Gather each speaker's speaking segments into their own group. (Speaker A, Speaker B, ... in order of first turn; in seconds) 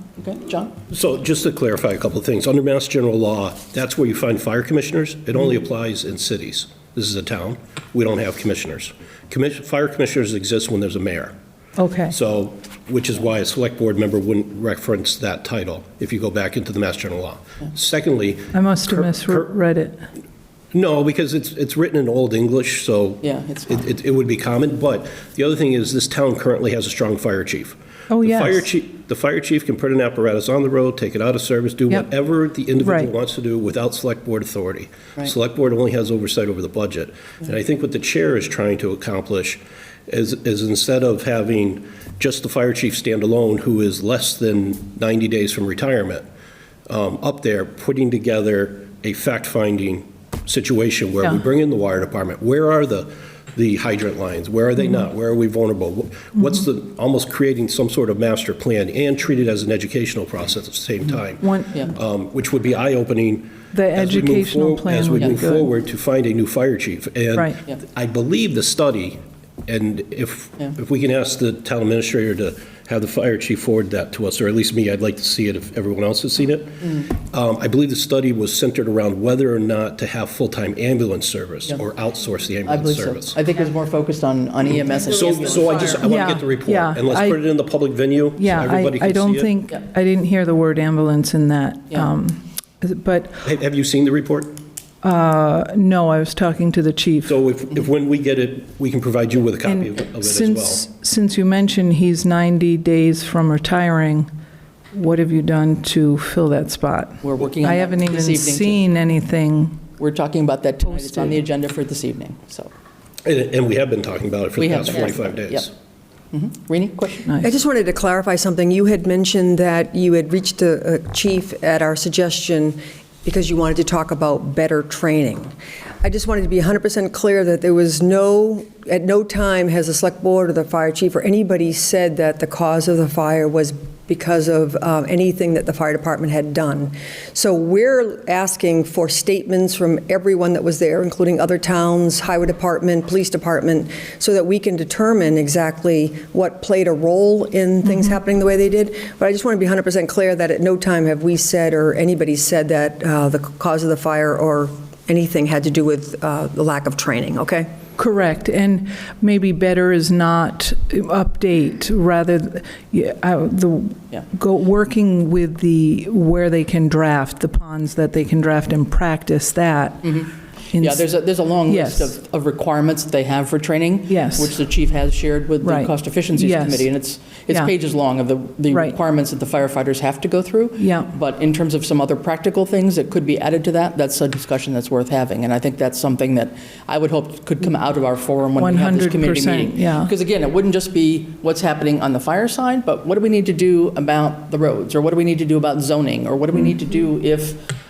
Speaker A: 0.2-0.8, 23.2-23.8, 82.6-86.0, 107.2-108.8, 110.0-112.7, 114.6-115.7, 116.3-117.3, 170.0-197.7
Speaker B: 0.9-11.3, 12.1-19.5, 20.7-46.2, 46.9-83.4, 85.2-89.5, 93.4-94.5, 97.3-100.8, 113.2-115.7
Speaker C: 11.8-12.1, 18.5-20.0, 28.1-28.6, 32.8-33.1, 61.4-61.9, 63.7-65.7, 86.0-87.5, 88.4-93.5, 95.0-97.3, 99.6-104.3, 104.9-109.8, 111.0-111.4, 158.0-170.2, 170.7-171.0, 171.7-172.1, 174.1-174.6, 175.6-176.9, 180.8-181.1, 188.6-190.1
Speaker D: 117.4-157.7